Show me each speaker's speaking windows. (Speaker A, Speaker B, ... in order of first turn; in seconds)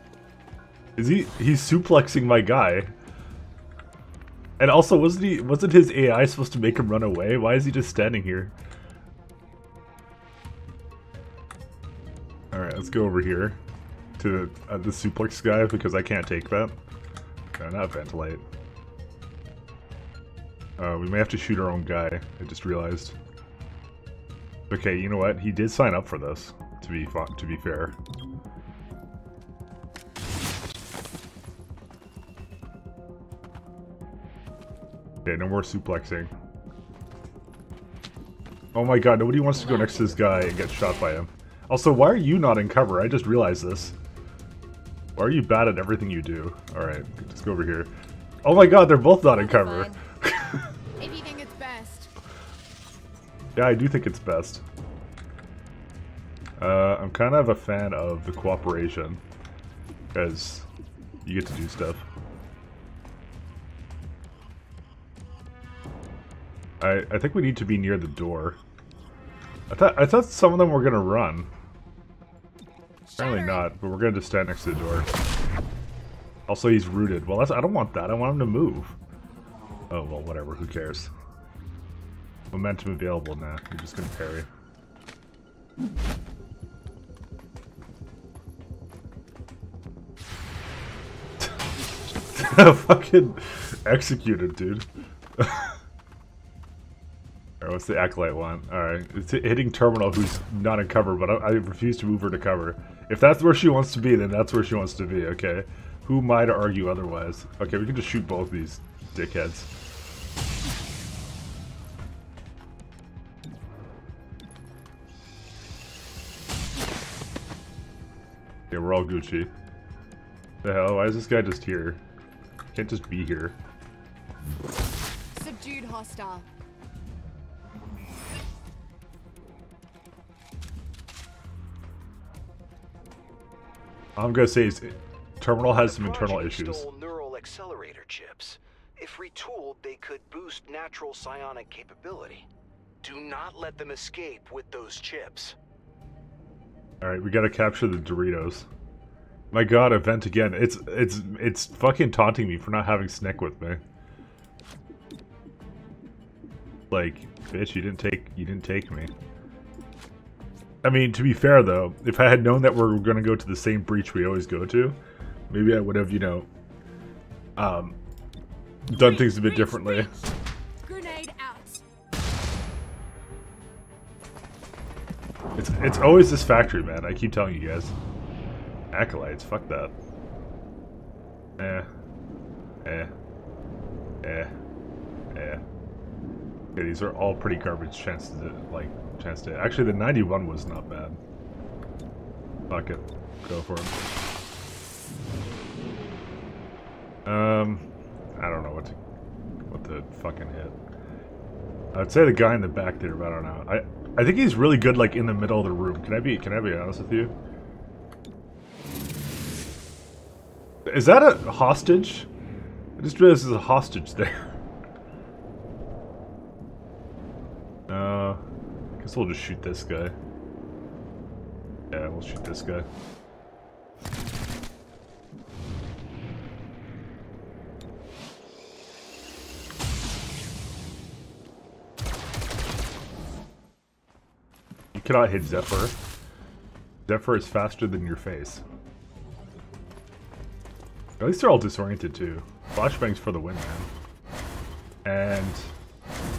Speaker A: 1.0-2.9, 4.6-8.5, 12.5-13.6, 14.2-16.7, 17.6-18.4, 20.8-23.1, 24.7-27.9, 35.2-36.3, 38.7-43.9, 45.1-47.9, 48.4-50.6, 53.5-54.6, 56.6-59.2, 60.1-60.6, 61.2-62.0, 66.8-68.6, 69.7-71.5, 73.2-75.1, 76.5-78.9, 79.9-81.1, 82.5-84.5, 92.3-94.8, 95.4-95.7, 97.6-109.7, 118.7-119.5, 120.6-122.0, 122.7-123.6, 134.2-136.8, 147.0-148.7, 149.5-153.8, 156.9-159.1, 160.8-165.0, 165.5-166.5, 167.6-168.0, 168.9-170.1, 175.6-177.9, 178.9-179.9, 181.6-181.9, 182.8-183.1, 184.2-184.5, 185.3-185.6, 186.8-191.2, 192.7-193.9, 197.2-199.0, 199.7-200.8, 201.9-207.3, 210.8-212.3, 213.0-214.5, 217.9-218.4, 219.0-220.1, 221.9-222.9, 234.9-235.9, 237.1-238.6, 241.2-243.9, 245.0-245.7
Speaker B: 39.5-41.2, 49.3-50.0, 51.0-52.1, 73.1-73.6, 125.3-126.5, 168.9-171.8
Speaker C: 135.6-142.5, 143.0-145.6